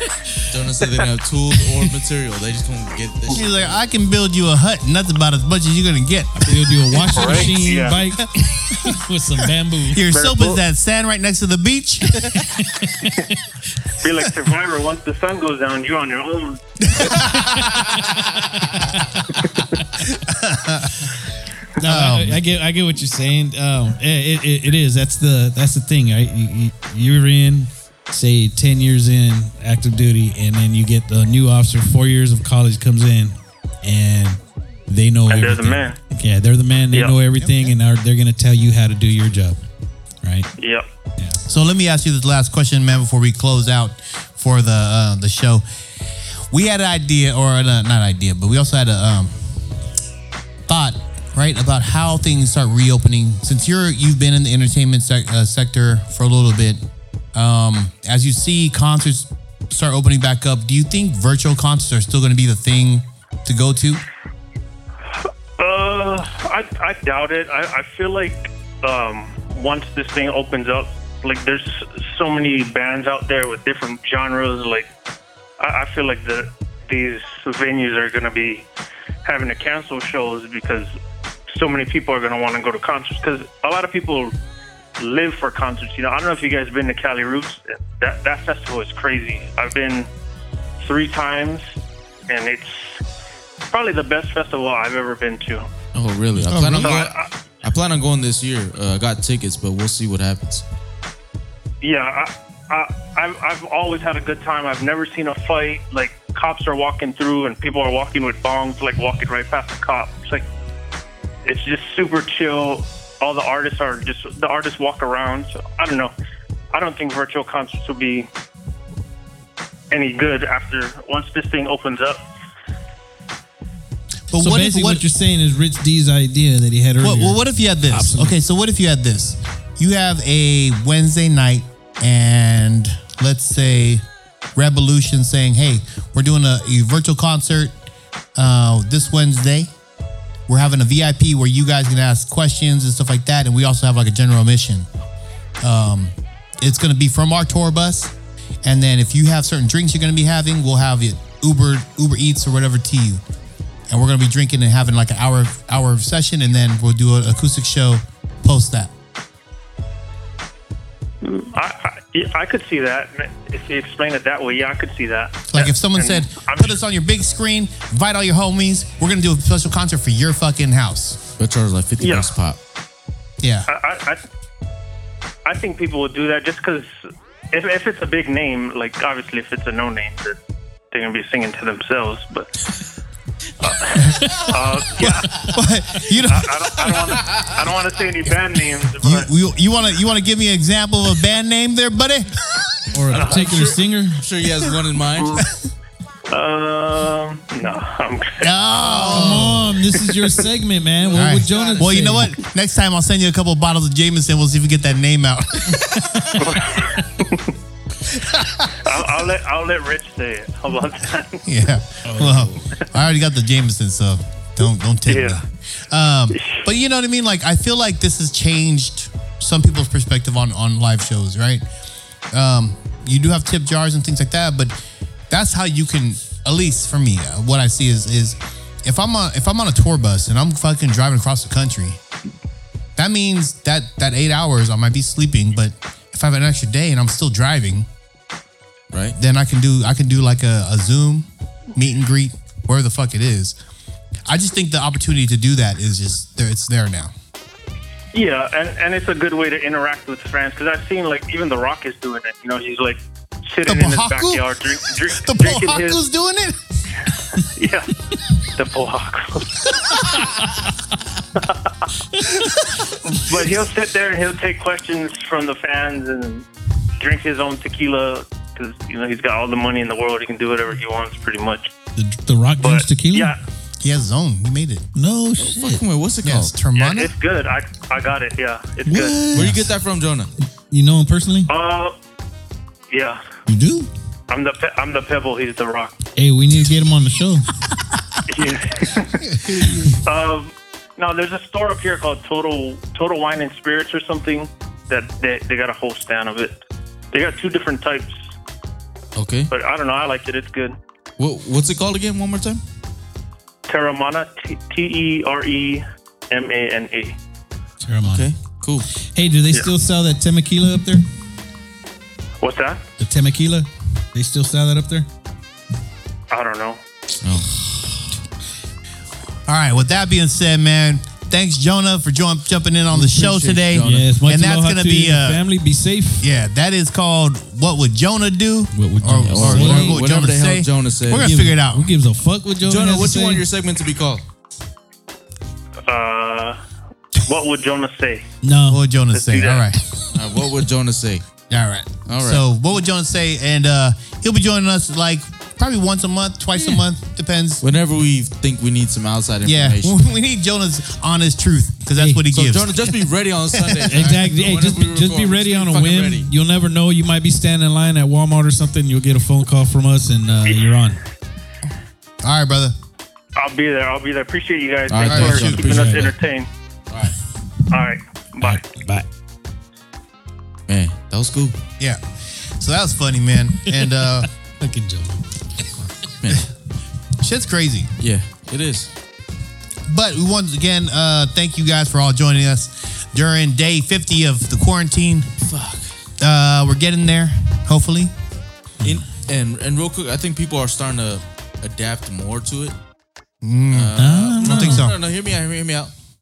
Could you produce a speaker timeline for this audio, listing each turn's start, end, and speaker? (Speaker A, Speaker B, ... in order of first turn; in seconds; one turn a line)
Speaker A: 0.5-3.8
Speaker B: 3.3-7.4
Speaker C: 6.3-10.1
Speaker D: 7.1-8.0
Speaker B: 8.4-9.0
Speaker B: 9.9-12.9
Speaker D: 10.1-10.6
Speaker C: 12.5-13.3
Speaker D: 13.9-16.6
Speaker B: 16.8-18.0
Speaker C: 17.3-19.8
Speaker B: 20.0-21.3
Speaker C: 21.8-39.6
Speaker B: 21.8-22.4
Speaker D: 35.3-36.0
Speaker D: 36.9-37.2
Speaker B: 37.4-37.7
Speaker C: 40.2-40.5
Speaker D: 40.6-40.9
Speaker B: 41.5-45.6
Speaker B: 46.5-49.4
Speaker B: 50.7-56.8
Speaker B: 57.3-64.0
Speaker D: 65.2-74.9
Speaker D: 75.6-78.7
Speaker D: 79.2-80.9
Speaker D: 81.5-84.3
Speaker D: 85.0-90.1
Speaker D: 90.8-91.7
Speaker D: 92.3-93.0
Speaker D: 93.7-95.7
Speaker A: 95.9-100.6
Speaker B: 96.4-97.0
Speaker D: 96.8-97.3
Speaker D: 101.8-110.5
Speaker D: 111.4-116.1
Speaker D: 116.7-118.3
Speaker D: 119.9-122.2
Speaker B: 124.3-125.0
Speaker C: 124.3-128.3
Speaker B: 127.0-134.0
Speaker B: 134.5-137.7
Speaker B: 138.3-139.7
Speaker B: 140.5-144.9
Speaker B: 145.6-153.2
Speaker B: 153.9-158.9
Speaker D: 161.2-166.8
Speaker B: 165.5-171.2
Speaker A: 171.4-172.6
Speaker D: 172.0-172.3
Speaker B: 173.4-173.7
Speaker D: 173.7-174.2
Speaker D: 175.4-177.0
Speaker D: 177.5-180.4
Speaker D: 180.9-182.5
Speaker D: 183.6-185.6
Speaker B: 184.0-184.3
Speaker B: 185.0-186.5
Speaker D: 186.2-189.3
Speaker A: 187.2-187.5
Speaker B: 189.0-192.8
Speaker C: 192.9-194.2
Speaker D: 193.1-193.6
Speaker A: 193.1-195.4
Speaker D: 195.2-195.5
Speaker D: 196.3-200.4
Speaker B: 198.4-199.7
Speaker C: 199.0-202.3
Speaker A: 201.0-202.2
Speaker B: 201.1-206.0
Speaker C: 205.7-206.4
Speaker D: 206.3-207.5
Speaker B: 208.1-208.9
Speaker D: 208.6-211.4
Speaker B: 211.4-221.6
Speaker C: 212.0-212.6
Speaker D: 215.1-215.4
Speaker D: 216.3-216.6
Speaker B: 222.3-224.7
Speaker B: 225.3-232.0
Speaker B: 232.9-237.9
Speaker B: 239.2-243.6
Speaker B: 244.3-247.1
Speaker D: 248.1-256.0
Speaker B: 253.7-254.4
Speaker B: 255.1-256.6
Speaker D: 257.3-259.7
Speaker D: 261.3-261.7
Speaker D: 263.1-266.4
Speaker D: 267.0-271.7
Speaker C: 271.9-273.3
Speaker D: 272.6-273.4
Speaker B: 273.8-274.8
Speaker C: 274.9-275.8
Speaker A: 275.4-276.5
Speaker B: 276.2-277.1
Speaker D: 276.7-279.3
Speaker C: 278.9-279.7
Speaker A: 279.3-280.3
Speaker C: 280.4-281.5
Speaker D: 281.5-282.0
Speaker D: 282.9-283.2
Speaker C: 283.5-283.9
Speaker D: 284.3-285.9
Speaker C: 286.1-287.5
Speaker D: 288.3-289.2
Speaker B: 289.2-289.9
Speaker D: 290.0-296.6
Speaker D: 297.1-298.2
Speaker A: 299.1-299.5
Speaker D: 299.5-300.8
Speaker A: 301.2-302.6
Speaker D: 303.7-307.2
Speaker C: 307.8-308.3
Speaker A: 308.0-308.9
Speaker C: 309.0-311.0
Speaker D: 312.4-312.8
Speaker C: 313.0-315.1
Speaker D: 316.3-316.8
Speaker A: 317.2-317.5
Speaker B: 319.4-325.4
Speaker A: 323.1-324.1
Speaker C: 323.8-326.3
Speaker B: 326.2-331.9
Speaker C: 328.7-330.0
Speaker A: 329.2-331.3
Speaker C: 331.1-333.4
Speaker A: 332.6-334.2
Speaker D: 335.8-336.6
Speaker D: 337.1-338.3
Speaker C: 338.4-338.8
Speaker B: 338.7-339.8
Speaker D: 339.1-339.7
Speaker A: 340.1-341.2
Speaker B: 341.5-347.6
Speaker A: 342.1-342.4
Speaker C: 346.5-346.8
Speaker A: 347.6-349.9
Speaker B: 349.4-352.7
Speaker C: 351.9-352.2
Speaker A: 352.3-356.3
Speaker C: 353.8-361.0
Speaker D: 360.4-360.8
Speaker B: 362.2-362.7
Speaker D: 363.3-366.5
Speaker A: 364.9-366.1
Speaker B: 365.0-365.6
Speaker C: 365.6-366.1
Speaker A: 366.9-367.1
Speaker D: 367.7-368.6
Speaker C: 368.4-369.1
Speaker A: 370.7-371.6
Speaker B: 371.8-374.3
Speaker C: 374.6-375.2
Speaker A: 376.2-376.5
Speaker B: 377.2-377.9
Speaker A: 378.0-378.9
Speaker B: 379.9-385.3
Speaker A: 385.4-385.9
Speaker B: 386.2-388.1
Speaker C: 388.8-389.1
Speaker A: 388.8-392.7
Speaker B: 393.4-395.0
Speaker A: 393.7-395.9
Speaker C: 394.0-394.9